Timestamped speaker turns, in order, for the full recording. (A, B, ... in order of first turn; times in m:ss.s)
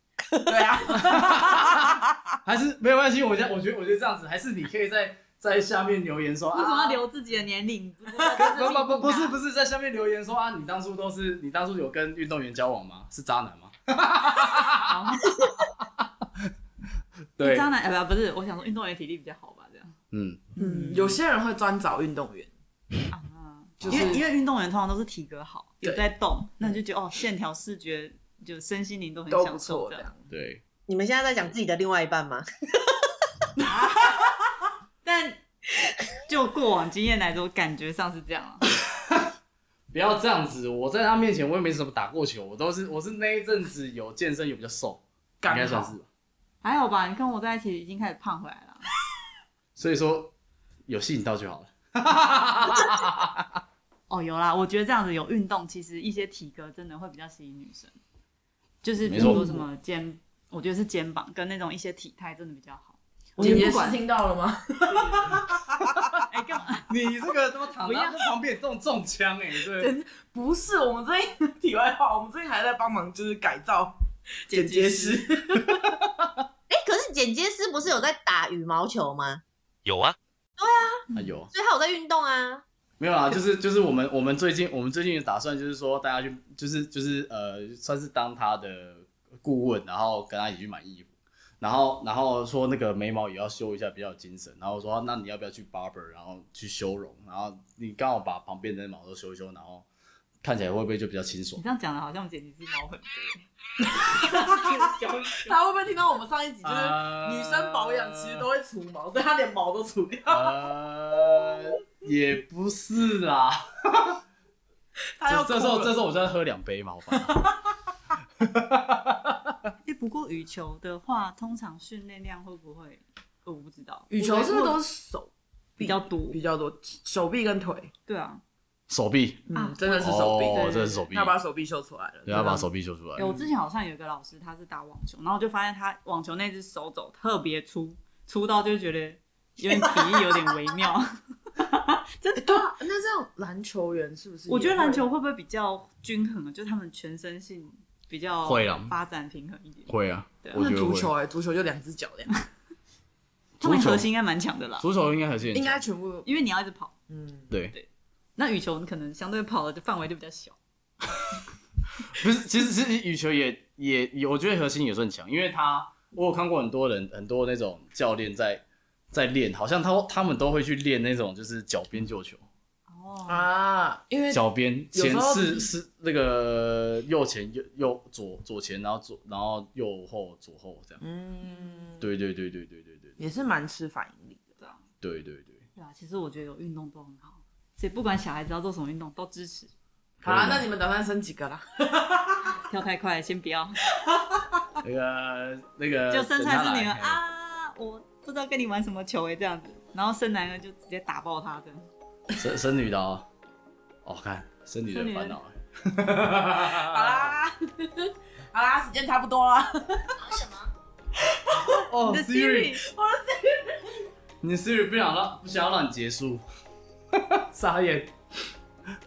0:00.3-0:00.6 A
0:00.5-0:02.0 B
0:00.9-0:07.0 C
0:06.5-0:09.4 D
0:08.1-0:08.7 B
0:08.4-0:16.0 C
0:14.8-0:15.5 D
0:17.4-0:17.7 C
0:17.4-0:19.9 D
0:20.1-0:20.4 C
0:20.6-0:21.2 D
0:20.6-0:22.5 B
0:23.1-0:30.1 D
0:23.8-0:24.1 C
0:23.8-0:24.2 B
0:29.3-0:30.2 B
0:30.3-0:30.6 C
0:30.9-0:33.0 A
0:33.6-0:34.2 B
0:33.7-0:34.2 D
0:35.0-0:35.4 D
0:36.3-0:38.6 D
0:39.9-0:46.1 C
0:45.4-0:45.9 B
0:46.6-0:48.8 D
0:49.8-0:50.3 C
0:50.8-0:53.5 C
0:54.1-0:57.9 D
0:58.8-1:04.0 D
0:59.0-0:59.6 C
0:59.2-0:59.5 B
1:03.4-1:06.0 B
1:03.4-1:03.8 C
1:04.9-1:05.3 D
1:06.3-1:06.9 D
1:06.9-1:09.9 C
1:07.8-1:08.2 D
1:09.8-1:13.9 B
1:14.5-1:15.2 D
1:14.5-1:15.9 B
1:16.7-1:19.4 A
1:20.6-1:21.0 A
1:21.1-1:21.5 C
1:21.5-1:22.6 A
1:23.0-1:39.8 C
1:40.4-1:41.6 C
1:41.6-1:43.5 D
1:44.0-1:44.7 B
1:44.1-1:45.6 D
1:45.4-1:50.5 B
1:46.6-1:48.4 C
1:50.3-1:54.2 C
1:55.2-1:55.9 B
1:55.3-1:57.4 C
1:57.1-1:57.6 B
1:58.4-1:59.6 C
1:59.8-2:04.8 D
2:04.1-2:07.9 B
2:05.8-2:06.4 D
2:08.0-2:08.4 D
2:08.9-2:09.5 C
2:09.5-2:12.7 B
2:09.5-2:11.1 D
2:10.0-2:11.4 C
2:12.3-2:13.2 C
2:13.2-2:22.6 D
2:13.2-2:13.5 B
2:22.4-2:25.0 B
2:24.5-2:29.9 D
2:28.4-2:29.0 C
2:29.9-2:31.1 C
2:30.5-2:32.3 B
2:33.6-2:34.1 C
2:33.6-2:34.8 D
2:34.8-2:35.8 C
2:35.5-2:36.3 B
2:36.2-2:37.0 D
2:37.1-2:37.5 B
2:37.7-2:40.6 D
2:42.1-2:52.4 C
2:52.9-2:53.5 D
2:53.2-2:54.4 B
2:54.3-3:01.0 C
2:54.9-2:55.7 B
3:01.0-3:02.1 B
3:02.0-3:03.2 C
3:03.2-3:04.5 B
3:05.0-3:05.6 C
3:05.8-3:09.7 D
3:10.2-3:10.7 C
3:10.2-3:12.5 B
3:12.7-3:13.8 D
3:14.1-3:14.4 B
3:14.8-3:17.2 C
3:16.1-3:21.8 D
3:22.4-3:23.3 C
3:24.0-3:27.3 C
3:24.9-3:25.4 D
3:26.7-3:30.4 B
3:31.2-3:31.8 B
3:31.9-3:32.8 C
3:32.0-3:32.8 D
3:32.8-3:34.1 B
3:34.4-3:36.4 C
3:37.1-3:38.1 C